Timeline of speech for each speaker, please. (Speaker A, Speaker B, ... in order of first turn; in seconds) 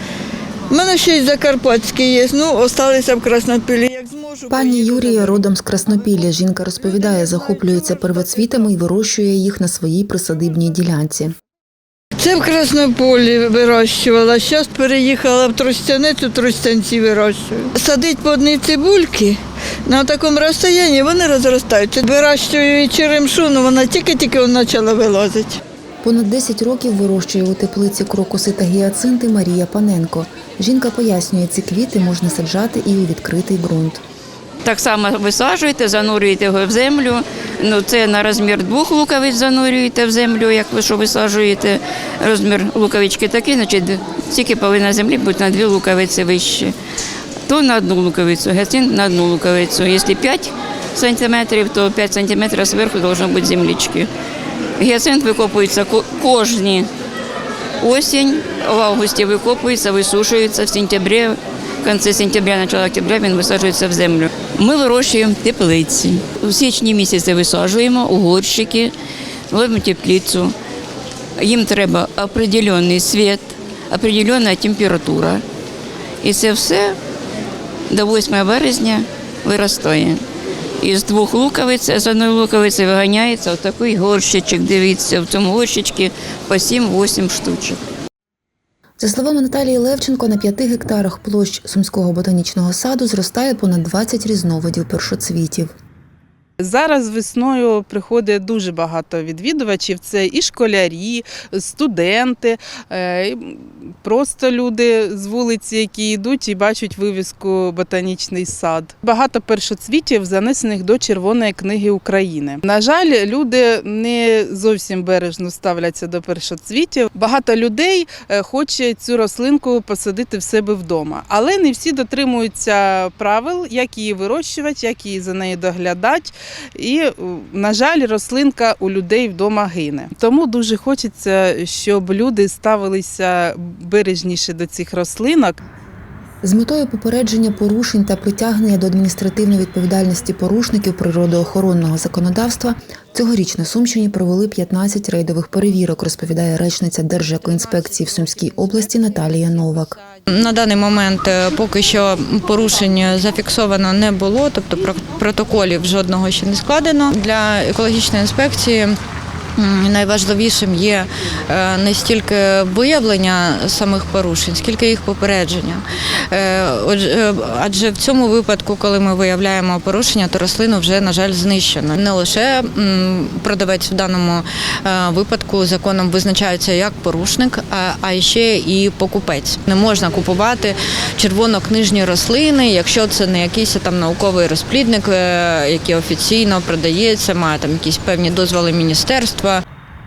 Speaker A: 0.7-5.4, 12.2-25.6
Speaker B: 4.5-11.3, 26.0-34.0, 89.0-95.7, 136.4-150.0
Speaker C: 34.6-46.7, 47.5-54.1, 54.8-56.9, 57.8-68.9, 69.5-70.5, 71.4-75.4, 76.2-77.0, 77.9-80.2, 80.8-87.8
Speaker D: 96.6-135.6
Speaker E: 150.3-159.0, 159.6-189.6